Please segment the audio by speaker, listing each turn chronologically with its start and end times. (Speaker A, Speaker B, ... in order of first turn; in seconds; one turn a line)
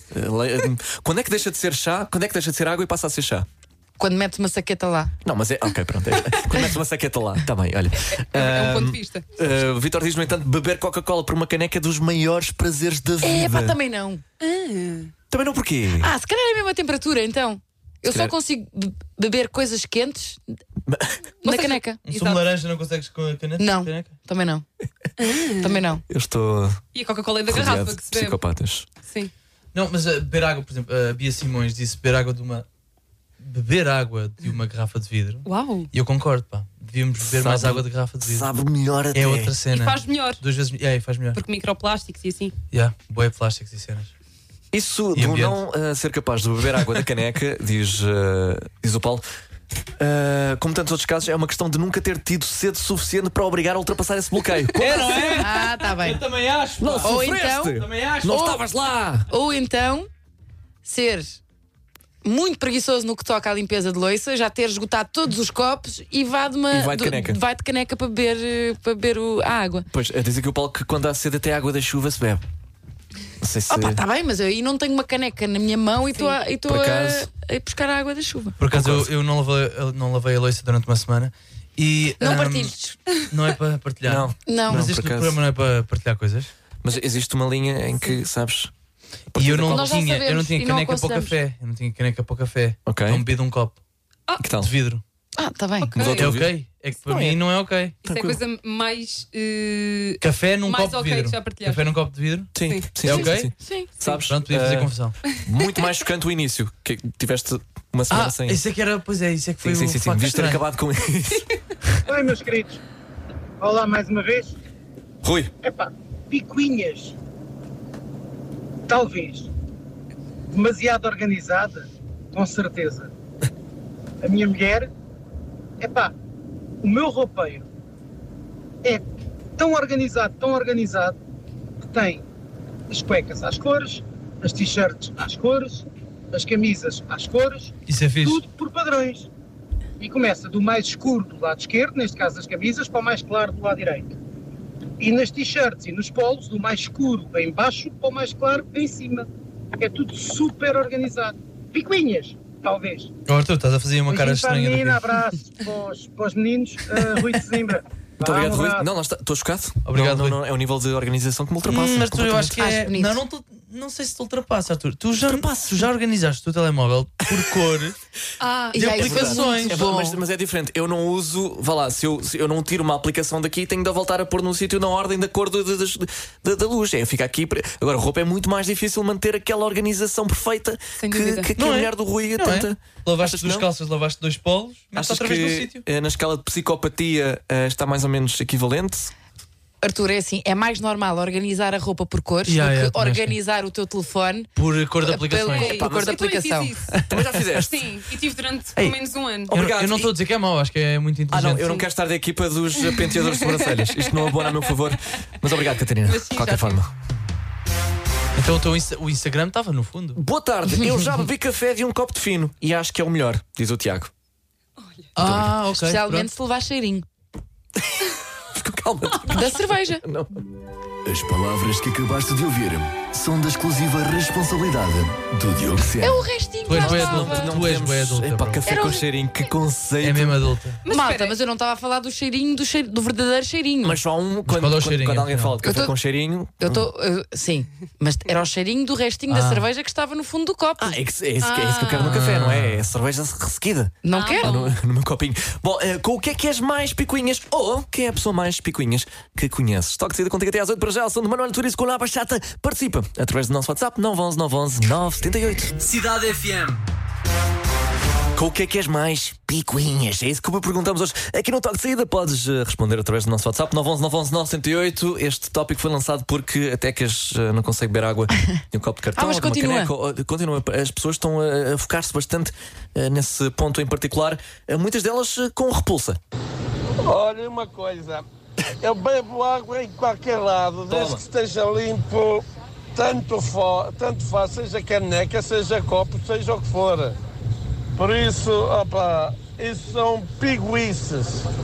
Speaker A: 0.1-3.5
Speaker B: 4.0-5.1
Speaker A: 5.2-13.8
Speaker C: 8.1-9.2
Speaker B: 13.2-14.2
Speaker C: 14.4-15.1
Speaker A: 15.3-16.1
Speaker B: 16.0-20.4
Speaker A: 18.1-18.3
Speaker A: 20.9-21.2
Speaker B: 21.4-22.0
Speaker C: 21.4-22.4
Speaker D: 22.1-24.1
Speaker B: 23.6-24.6
Speaker C: 25.2-25.8
Speaker B: 25.6-26.0
Speaker A: 26.1-26.8
Speaker C: 26.9-28.4
Speaker A: 27.5-28.9
Speaker C: 29.0-29.3
Speaker D: 29.7-32.6
Speaker D: 33.4-38.5
Speaker C: 35.4-35.9
Speaker A: 37.3-39.5
Speaker D: 39.1-41.4
Speaker C: 39.7-40.4
Speaker C: 41.3-42.5
Speaker D: 42.7-44.1
Speaker A: 44.7-49.2
Speaker D: 45.1-45.6
Speaker A: 50.0-55.2
Speaker D: 54.8-58.6
Speaker B: 55.4-56.2
Speaker A: 56.8-59.3
Speaker B: 57.0-57.8
Speaker B: 59.3-60.1
Speaker B: 60.8-61.4
Speaker B: 62.2-69.9
Speaker A: 66.7-67.4
Speaker A: 69.9-72.4
Speaker A: 73.4-74.0
Speaker B: 73.7-78.5
Speaker A: 76.6-77.3
Speaker D: 78.6-82.7
Speaker A: 78.7-79.1
Speaker B: 82.2-83.0
Speaker D: 83.3-86.5
Speaker A: 84.0-85.4
Speaker B: 84.5-84.8
Speaker A: 86.8-88.7
Speaker A: 89.3-89.9
Speaker D: 89.3-93.8
Speaker B: 89.7-91.3
Speaker A: 92.8-93.2
Speaker A: 94.4-94.7
Speaker D: 94.6-95.0
Speaker B: 95.4-96.1
Speaker C: 95.8-96.3
Speaker A: 96.0-96.5
Speaker D: 96.2-98.0
Speaker A: 97.1-97.3
Speaker C: 98.0-101.9
Speaker A: 98.0-98.4
Speaker D: 100.2-103.5
Speaker A: 102.5-108.6
Speaker C: 102.6-103.2
Speaker B: 103.6-103.9
Speaker D: 104.0-105.2
Speaker D: 108.1-110.6
Speaker A: 109.6-111.5
Speaker E: 112.1-112.8
Speaker E: 113.6-114.5
Speaker A: 115.2-115.5
Speaker E: 115.6-117.1
Speaker E: 118.9-119.5
Speaker E: 120.5-123.1
Speaker E: 124.2-124.9
Speaker E: 125.8-126.1
Speaker E: 126.8-127.7
Speaker E: 129.6-131.2
Speaker E: 131.9-132.2
Speaker E: 132.9-139.3
Speaker D: 137.9-138.4
Speaker E: 140.0-144.2
Speaker E: 145.0-149.3
Speaker E: 149.8-153.1
Speaker D: 153.3-155.1
Speaker E: 154.1-158.9
Speaker A: 158.2-162.6
Speaker D: 159.8-160.4
Speaker D: 161.7-168.0
Speaker B: 162.6-163.2
Speaker A: 165.2-165.7
Speaker C: 168.4-168.7
Speaker B: 168.7-170.2
Speaker D: 168.8-169.8
Speaker A: 168.8-183.7
Speaker C: 181.0-181.5
Speaker D: 181.6-185.8
Speaker A: 184.9-189.1
Speaker B: 189.8-194.5
Speaker D: 192.5-193.3
Speaker D: 194.6-195.8
Speaker B: 195.0-196.7
Speaker C: 195.5-199.5
Speaker A: 195.7-196.2
Speaker A: 197.1-197.8
Speaker A: 199.5-200.1
Speaker D: 199.5-201.8
Speaker A: 201.3-206.9
Speaker C: 203.5-204.5
Speaker C: 206.0-206.8
Speaker D: 208.3-210.2
Speaker A: 210.2-214.1
Speaker D: 215.2-216.3
Speaker A: 215.2-215.5
Speaker B: 215.7-217.1
Speaker A: 218.5-220.3
Speaker B: 219.3-220.0
Speaker F: 221.1-223.1
Speaker A: 223.0-225.1
Speaker F: 225.0-226.1
Speaker B: 226.0-227.5
Speaker D: 226.7-228.6
Speaker A: 226.7-230.4
Speaker B: 228.7-229.0
Speaker D: 230.0-230.8
Speaker C: 230.8-231.3
Speaker B: 230.9-234.0
Speaker A: 233.8-236.9
Speaker D: 234.5-235.6
Speaker B: 235.6-235.9
Speaker B: 236.6-241.0
Speaker D: 239.3-239.7
Speaker A: 240.8-255.7
Speaker C: 241.4-242.1
Speaker D: 242.0-242.8
Speaker B: 244.0-244.5
Speaker C: 244.1-244.8
Speaker F: 255.8-256.8
Speaker A: 258.3-276.2
Speaker B: 269.1-269.9
Speaker G: 277.0-278.2
Speaker G: 278.8-282.4
Speaker A: 280.9-281.2
Speaker G: 282.9-287.1
Speaker G: 288.0-291.4